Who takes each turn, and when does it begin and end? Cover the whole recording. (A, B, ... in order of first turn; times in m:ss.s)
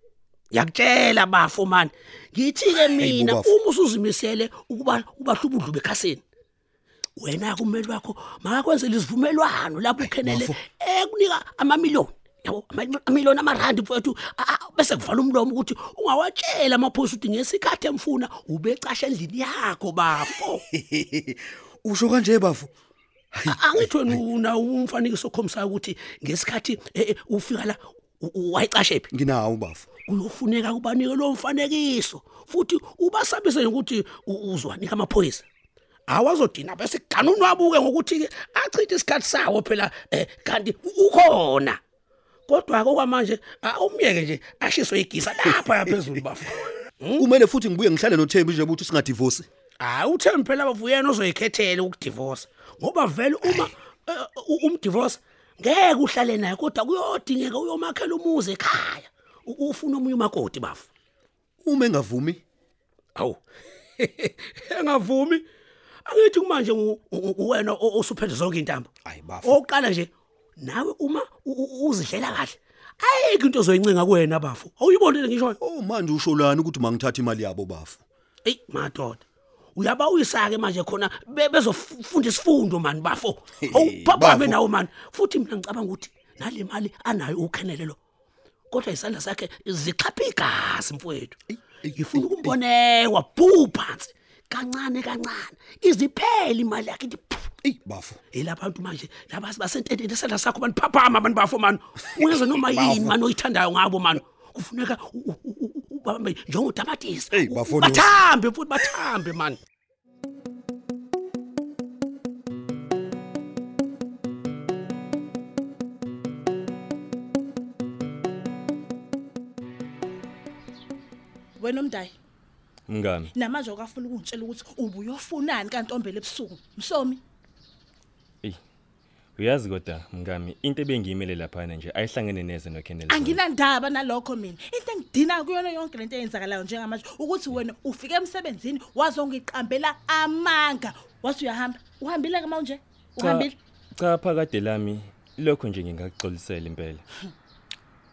0:00.5-0:06.2 A
0:02.7-0:03.5 B
0:07.2-0:20.6 A
0:10.0-0:10.6 B
0:20.7-0:22.7 B
0:23.3-0:24.2 B
0:23.5-0:29.1 A
0:29.1-0:29.9 B
0:30.0-0:35.4 A
0:36.1-0:41.8 A
0:42.5-0:47.2 A
0:47.2-0:49.5 B
0:49.8-1:00.9 A
1:01.6-1:02.4 B
1:04.0-1:05.4 A
1:06.0-1:08.9 A
1:09.0-1:09.6 B
1:09.4-1:15.6 A
1:15.6-1:18.0 B
1:18.4-1:19.2 A
1:19.8-1:28.0 A
1:23.6-1:24.6 B
1:28.7-1:31.4 A
1:31.5-1:32.5 B
1:31.9-1:37.5 A
1:37.6-1:38.2 B
1:38.3-1:49.6 A
1:42.1-1:43.2 B
1:47.3-1:48.2 B
2:01.6-2:02.1 C
2:02.9-2:03.3 D
2:03.3-2:07.2 C
2:09.4-2:13.4 D
2:13.1-2:23.5 C
2:23.2-2:27.0 D